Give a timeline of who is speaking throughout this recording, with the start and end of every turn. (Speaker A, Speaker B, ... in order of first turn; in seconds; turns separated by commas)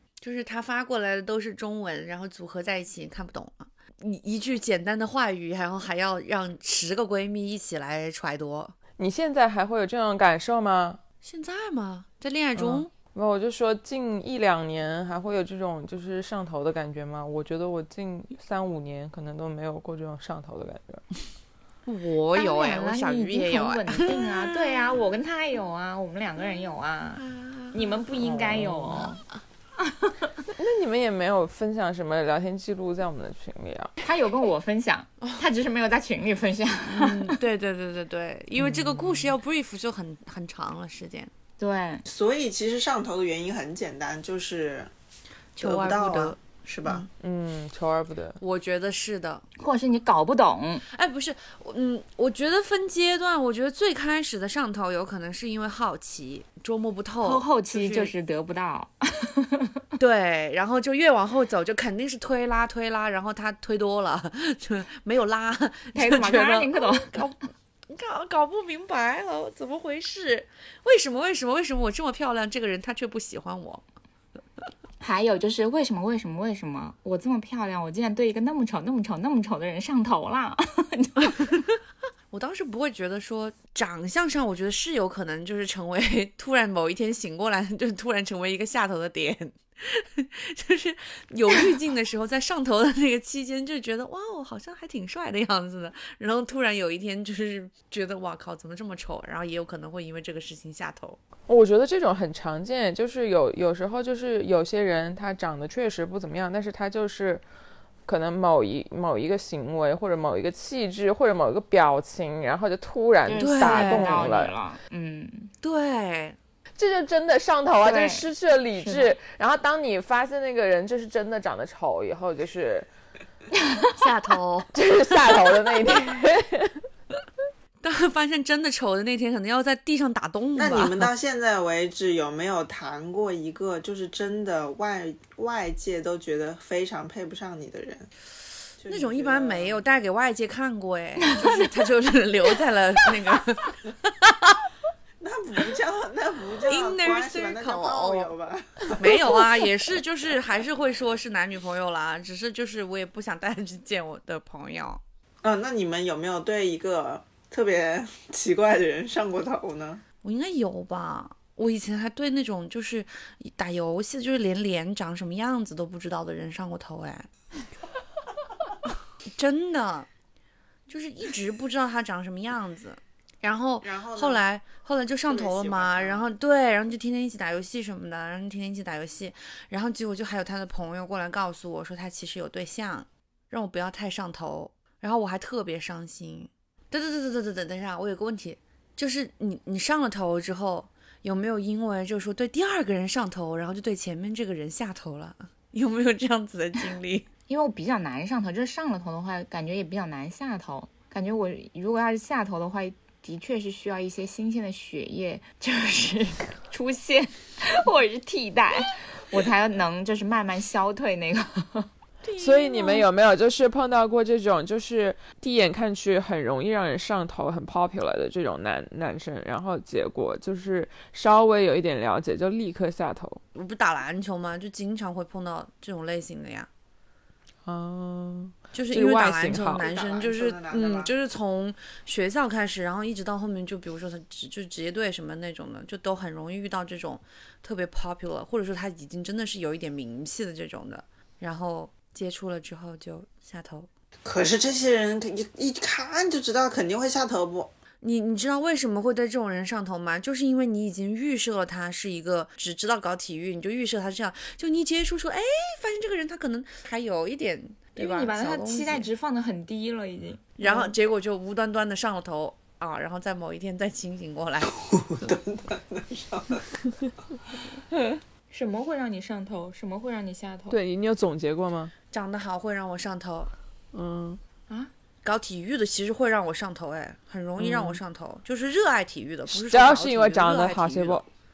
Speaker A: 0.2-8.8, Speaker B: 9.0-11.0, Speaker A: 11.2-12.9, Speaker B: 12.6-21.0, Speaker A: 21.9-25.1, Speaker C: 22.3-29.2, Speaker A: 27.2-27.9, Speaker B: 28.2-29.2, Speaker B: 30.6-33.9, Speaker C: 34.0-37.4, Speaker A: 36.9-41.3, Speaker B: 38.6-39.3, Speaker C: 41.6-42.0, Speaker D: 42.0-44.9, Speaker A: 45.6-47.1, Speaker D: 45.6-47.0, Speaker B: 47.2-48.4, Speaker A: 48.4-49.4, Speaker C: 49.6-50.8, Speaker A: 50.9-58.1, Speaker C: 57.2-59.8, Speaker A: 60.0-73.8, Speaker C: 65.9-67.2, Speaker C: 75.0-81.6, Speaker A: 81.2-81.6, Speaker A: 82.3-101.2, Speaker B: 101.5-107.4, Speaker B: 108.0-114.5, Speaker C: 113.2-115.5, Speaker A: 113.4-114.2, Speaker A: 115.6-116.4, Speaker B: 116.8-122.9, Speaker C: 117.8-119.1, Speaker C: 123.6-123.9, Speaker A: 124.0-126.0, Speaker B: 124.7-126.8, Speaker A: 127.8-131.1, Speaker D: 130.6-138.1, Speaker D: 138.8-139.8, Speaker A: 138.9-144.6, Speaker D: 145.2-149.7, Speaker A: 146.7-148.3, Speaker A: 149.0-155.0, Speaker D: 155.4-160.0, Speaker A: 160.2-167.3, Speaker A: 169.3-170.1, Speaker A: 170.9-197.3, Speaker D: 173.8-174.4, Speaker D: 175.3-176.3, Speaker C: 197.5-211.9, Speaker A: 212.2-213.1, Speaker B: 212.4-223.4, Speaker A: 223.5-226.7, Speaker B: 227.7-229.8, Speaker A: 228.7-243.9, Speaker D: 229.8-231.1, Speaker D: 244.2-247.7, Speaker A: 248.0-259.1, Speaker C: 258.0-260.9, Speaker A: 260.6-264.8, Speaker D: 264.9-266.7, Speaker C: 268.5-270.8, Speaker B: 270.7-271.9, Speaker A: 272.1-273.5, Speaker B: 273.9-274.4, Speaker A: 275.2-281.2, Speaker B: 277.6-278.0, Speaker B: 279.5-281.2